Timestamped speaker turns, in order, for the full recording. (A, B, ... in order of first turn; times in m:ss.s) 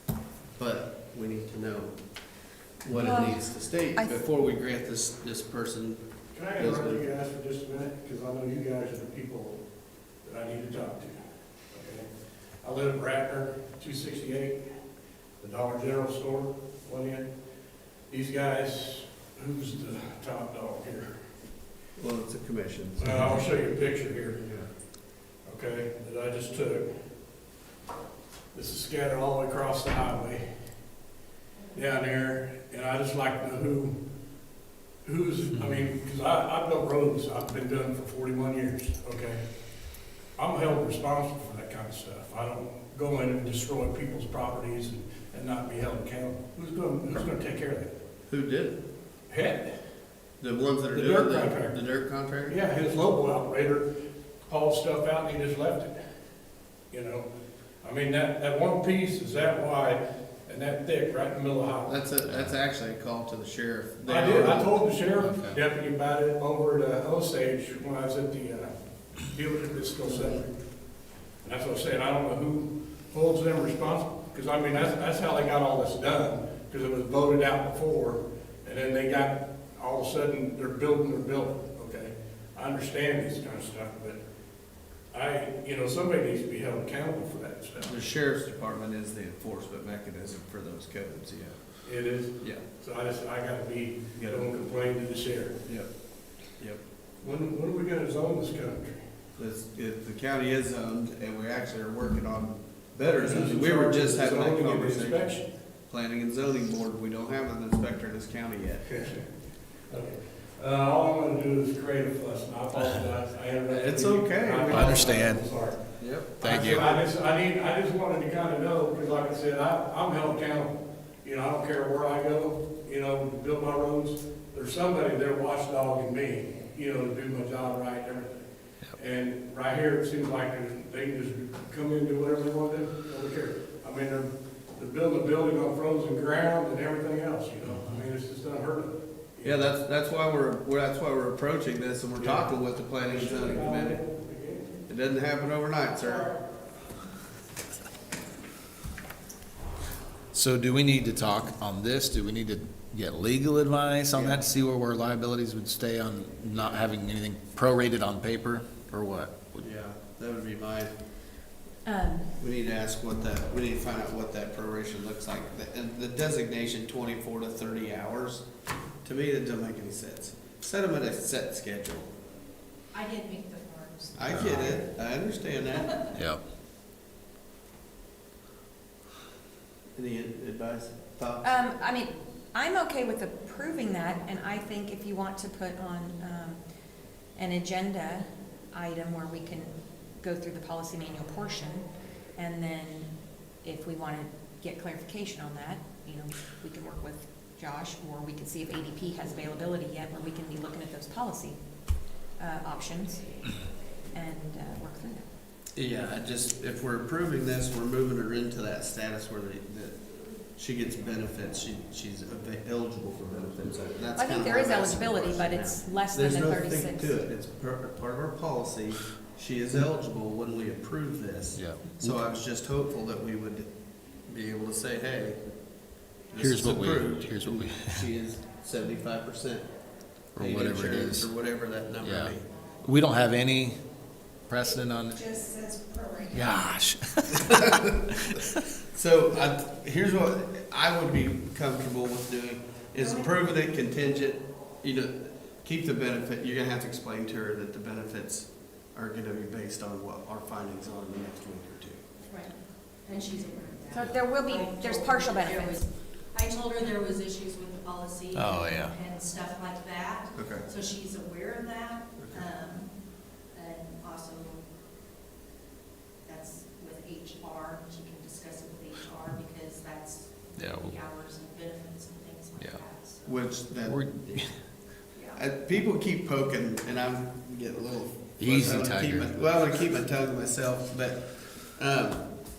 0:00.6-0:02.0 A
0:02.8-0:06.0 A
0:02.9-0:03.4 B
0:06.3-0:09.6 C
0:06.6-0:07.0 A
0:10.2-0:11.2 C
0:11.7-0:12.1 C
0:12.6-0:14.6 C
0:15.4-0:17.3 C
0:18.1-0:21.1 C
0:22.0-0:23.1 A
0:23.0-0:24.5 C
0:25.4-0:26.8 C
0:28.5-0:30.4 C
0:31.7-0:33.9 C
0:35.0-0:39.4 C
0:35.5-0:35.8 D
0:40.4-0:47.9 C
0:48.3-0:48.8 A
0:49.3-0:49.7 C
0:50.4-0:52.6 A
0:50.9-0:51.8 C
0:52.5-0:53.9 C
0:54.5-0:55.9 C
0:56.9-0:57.3 C
0:57.8-1:02.0 C
1:01.9-1:04.7 A
1:02.2-1:02.5 D
1:04.1-1:08.7 C
1:05.2-1:05.6 D
1:09.3-1:10.5 C
1:10.0-1:10.4 A
1:11.4-1:24.2 C
1:25.1-1:27.9 C
1:27.8-1:31.6 A
1:31.8-1:35.6 C
1:34.2-1:34.4 A
1:37.2-1:39.0 C
1:39.4-1:45.3 A
1:43.2-1:45.5 C
1:45.9-1:48.9 A
1:48.9-1:49.2 C
1:49.9-1:55.8 C
1:53.7-1:55.2 A
1:54.7-1:55.4 D
1:56.0-1:57.0 A
1:56.4-1:56.9 D
1:56.4-2:08.4 C
2:09.0-2:19.8 C
2:19.4-2:24.0 A
2:22.2-2:24.7 C
2:24.9-2:26.3 A
2:30.3-2:39.6 D
2:34.1-2:34.4 A
2:39.6-2:40.9 A
2:41.8-2:42.3 B
2:42.4-2:48.4 A
2:49.0-2:52.1 A
2:52.9-2:54.8 E
2:54.2-2:56.0 A
2:54.3-2:54.7 D
2:56.1-2:56.4 D
3:00.0-3:01.6 A
3:01.4-3:06.6 B
3:07.4-3:11.8 B
3:12.4-3:13.1 B
3:13.6-3:21.6 B
3:22.4-3:23.4 B
3:24.1-3:25.2 B
3:25.8-3:43.7 A
3:34.1-3:37.2 B
3:41.6-3:42.2 D
3:44.2-3:45.4 A
3:46.3-3:49.7 A
3:46.4-3:48.0 D
3:50.3-3:51.3 D
3:50.4-3:52.4 A
3:52.0-3:53.8 D
3:54.5-3:55.4 D
3:55.4-3:56.3 B
3:56.3-3:58.6 D
3:58.9-4:12.0 A
4:12.2-4:12.5 E
4:13.0-4:22.9 E
4:13.9-4:15.8 B
4:18.3-4:18.9 D
4:20.3-4:20.7 A
4:22.2-4:22.4 A
4:23.5-4:24.6 E
4:26.2-4:33.3 E
4:30.6-4:30.9 D
4:33.2-4:34.4 A
4:33.8-4:34.5 D
4:35.1-4:35.4 E
4:35.3-4:42.3 A
4:38.4-4:39.3 D